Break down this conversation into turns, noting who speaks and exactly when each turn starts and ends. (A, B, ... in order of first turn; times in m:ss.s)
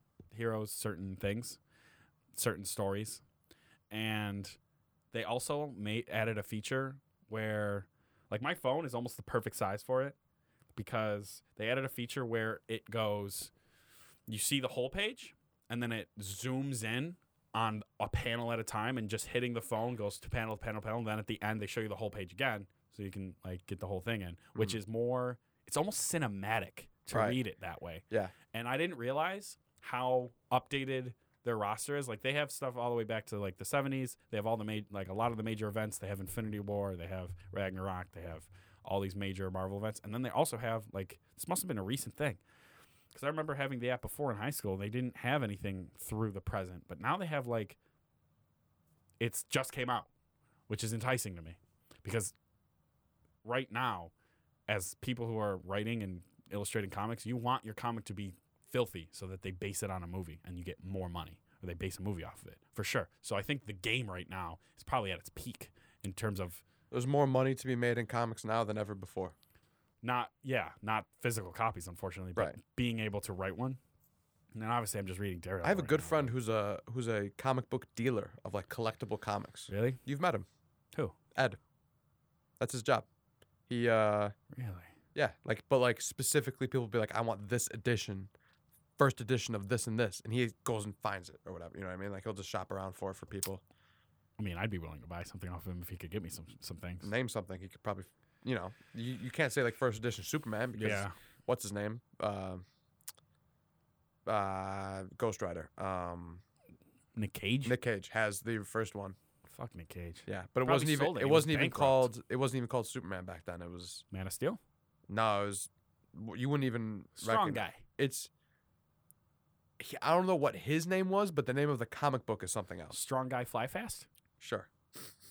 0:00.3-0:01.6 A
0:02.3-0:03.2 A
0:03.9-0:04.6 A
0:05.1-0:10.2 A
0:10.8-0:13.5 A
0:14.3-0:42.4 A
0:27.1-0:27.4 B
0:43.1-0:47.8 A
0:49.2-0:50.1 A
0:50.7-0:52.3 A
0:53.4-0:54.1 A
0:54.7-1:06.6 A
1:06.9-1:09.3 B
1:10.0-1:13.8 A
1:14.5-1:16.3 A
1:15.6-1:20.5 B
1:19.7-1:20.0 A
1:22.6-1:23.1 B
1:23.7-1:24.3 B
1:24.5-1:24.9 A
1:25.1-1:28.3 B
1:29.0-1:33.6 B
1:34.4-1:37.1 A
1:37.0-1:42.6 B
1:40.8-1:41.1 A
1:44.3-1:46.4 B
1:47.2-1:47.8 A
1:47.6-1:49.2 B
1:49.4-1:52.1 A
1:50.3-1:54.0 B
1:54.1-1:54.6 A
1:55.1-1:58.3 B
1:57.2-1:57.8 A
1:59.8-2:03.0 B
2:02.9-2:04.1 A
2:04.4-2:04.7 B